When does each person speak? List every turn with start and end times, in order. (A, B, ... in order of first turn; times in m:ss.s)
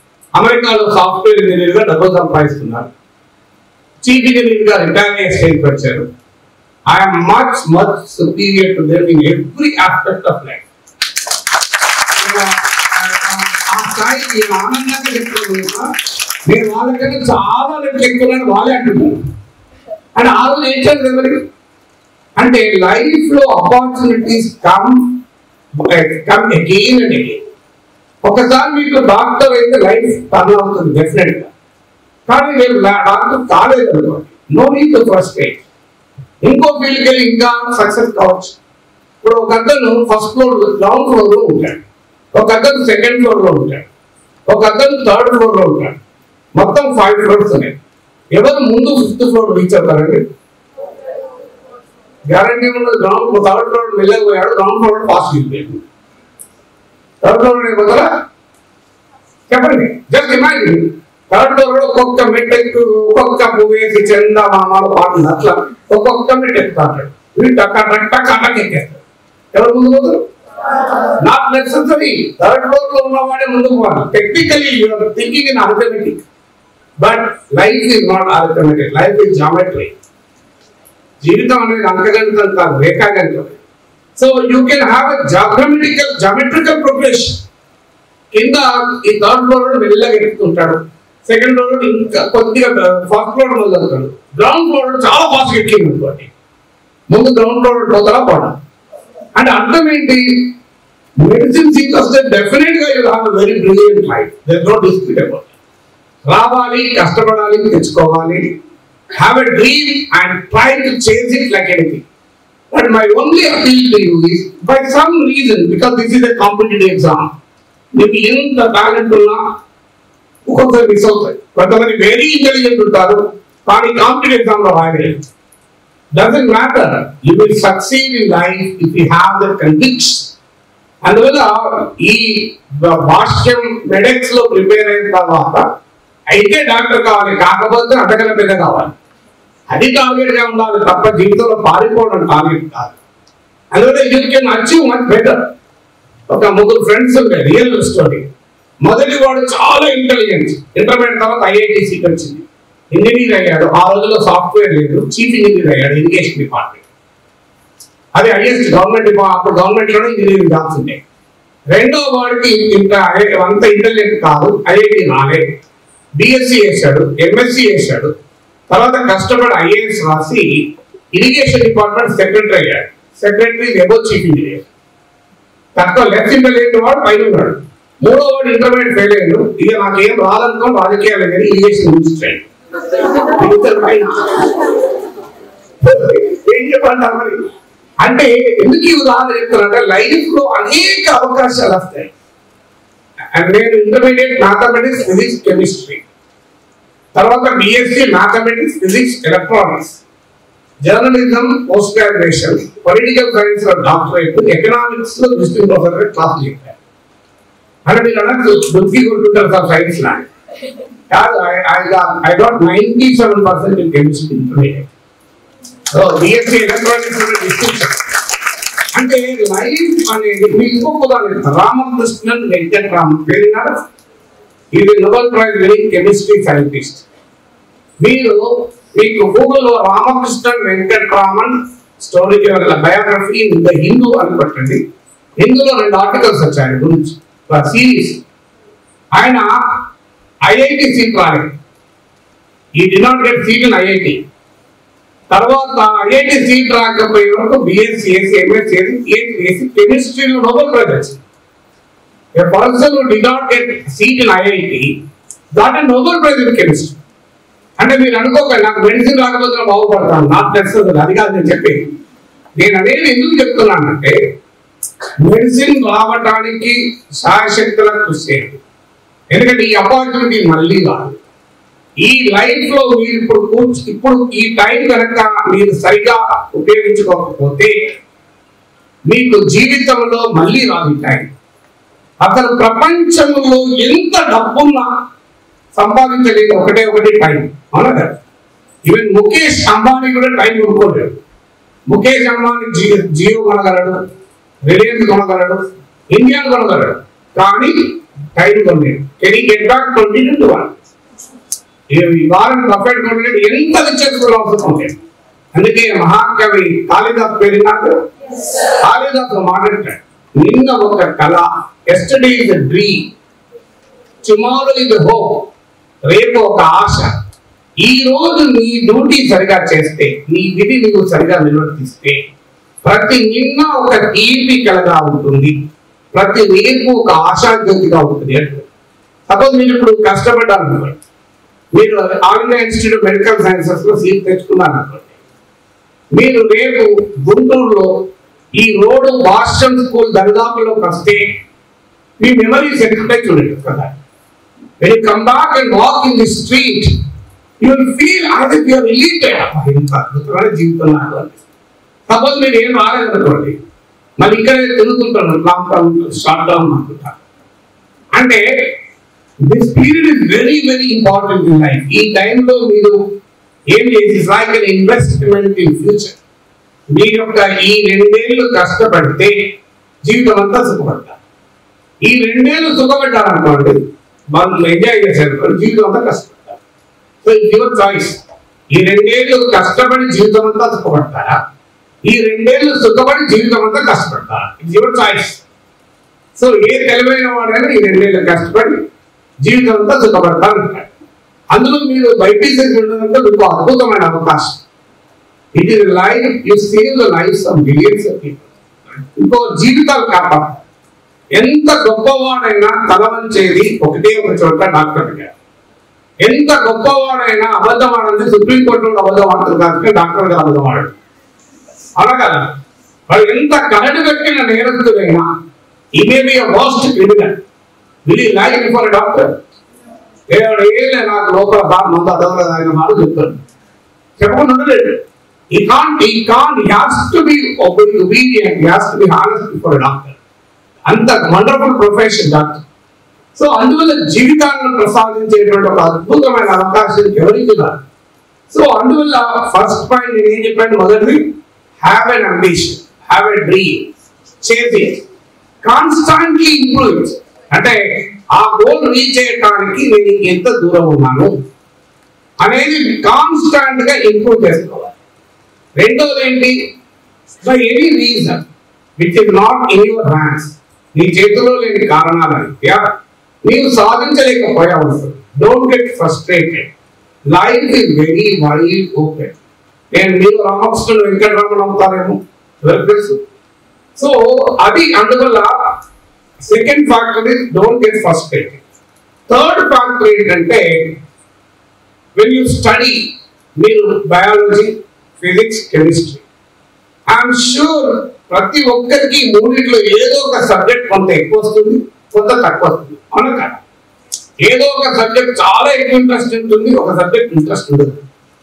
0:00.4-0:02.9 A
0:04.0-0:06.1 A
0:06.9-0:10.6 A
0:12.2-0:15.9 A
0:16.5-0:19.2 A
0:20.2-0:21.4 A
0:22.4-0:25.2 A
0:25.8-0:27.4 A
0:28.2-0:31.5 A
0:32.3-0:35.6 A
0:36.4-0:38.6 A
0:39.2-0:41.8 A
0:42.4-0:43.9 A
0:44.5-0:46.0 A
0:46.6-0:47.8 A
0:48.3-0:50.2 A
0:52.3-0:55.8 A
0:57.2-0:58.1 A
0:59.5-1:09.0 A
1:09.5-1:10.2 A
1:11.2-1:16.3 A
1:17.0-1:20.0 A
1:21.2-1:23.6 A
1:24.2-1:27.4 A
1:28.3-1:36.3 A
1:37.1-1:38.6 A
1:39.4-1:40.5 A
1:41.2-1:45.5 A
1:46.2-1:48.5 A
1:49.1-1:52.0 A
1:52.7-1:57.3 A
1:58.0-1:59.4 A
2:00.5-2:05.2 A
2:06.2-2:10.3 A
2:11.0-2:15.6 A
2:16.3-2:19.0 A
2:19.7-2:23.0 A
2:23.7-2:25.5 A
2:26.3-2:28.3 A
2:28.8-2:36.8 A
2:38.2-2:41.0 A
2:41.7-2:45.4 A
2:46.2-2:48.1 A
2:48.7-2:50.5 A
2:51.1-2:54.7 A
2:55.8-3:02.5 A
3:03.4-3:04.5 A
3:05.8-3:07.5 A
3:08.0-3:12.1 A
3:13.4-3:16.0 A
3:17.2-3:20.0 A
3:20.8-3:26.8 A
3:27.9-3:30.3 A
3:31.1-3:34.9 A
3:35.9-3:38.0 A
3:39.0-3:43.7 A
3:44.8-3:47.1 A
3:48.0-3:54.8 A
3:55.4-3:58.2 A
3:59.2-3:59.5 A
4:00.5-4:01.5 A
4:02.8-4:04.2 A
4:05.3-4:11.2 A
4:12.4-4:14.9 A
4:15.5-4:17.0 A
4:17.8-4:21.9 A
4:22.6-4:24.2 A
4:25.2-4:28.6 A
4:29.3-4:31.2 A
4:32.0-4:37.8 A
4:39.1-4:41.3 A
4:42.2-4:44.9 A
4:45.8-4:48.2 A
4:48.9-4:51.2 A
4:51.9-4:54.0 A
4:54.7-5:00.8 A
5:01.9-5:05.0 A
5:05.5-5:08.0 A
5:08.8-5:13.1 A
5:14.2-5:15.5 A
5:16.0-5:17.1 A
5:17.8-5:22.3 A
5:22.8-5:25.5 A
5:26.1-5:28.7 A
5:29.3-5:31.0 A
5:31.8-5:35.1 A
5:36.2-5:37.9 A
5:38.6-5:41.3 A
5:42.2-5:44.0 A
5:44.8-5:46.9 A
5:47.6-5:51.4 A
5:52.1-5:53.6 A
5:54.2-5:57.2 A
5:58.2-5:58.4 A
5:59.5-6:03.0 A
6:03.7-6:06.2 A
6:06.9-6:09.4 A
6:10.1-6:11.2 A
6:12.0-6:13.8 A
6:14.3-6:16.6 A
6:17.2-6:21.4 A
6:22.0-6:25.4 A
6:26.4-6:28.8 A
6:29.4-6:30.9 A
6:31.5-6:34.6 A
6:35.6-6:40.6 A
6:41.4-6:45.3 A
6:46.2-6:51.0 A
6:52.0-6:52.6 A
6:53.1-6:55.3 A
6:56.0-6:57.3 A
6:58.1-6:59.3 A
7:00.3-7:03.4 A
7:04.2-7:10.2 A
7:10.9-7:12.7 A
7:13.4-7:17.8 A
7:18.5-7:21.2 A
7:21.8-7:25.0 A
7:25.6-7:27.8 A
7:28.3-7:31.3 A
7:32.4-7:35.0 A
7:35.8-7:36.6 A
7:37.4-7:38.5 A
7:39.0-7:42.8 A
7:43.4-7:46.7 A
7:47.3-7:49.4 A
7:49.9-7:53.2 A
7:54.0-7:55.5 A
7:56.4-7:58.6 A
7:59.3-8:00.7 A
8:02.2-8:06.2 A
8:07.1-8:13.6 A
8:14.4-8:18.0 A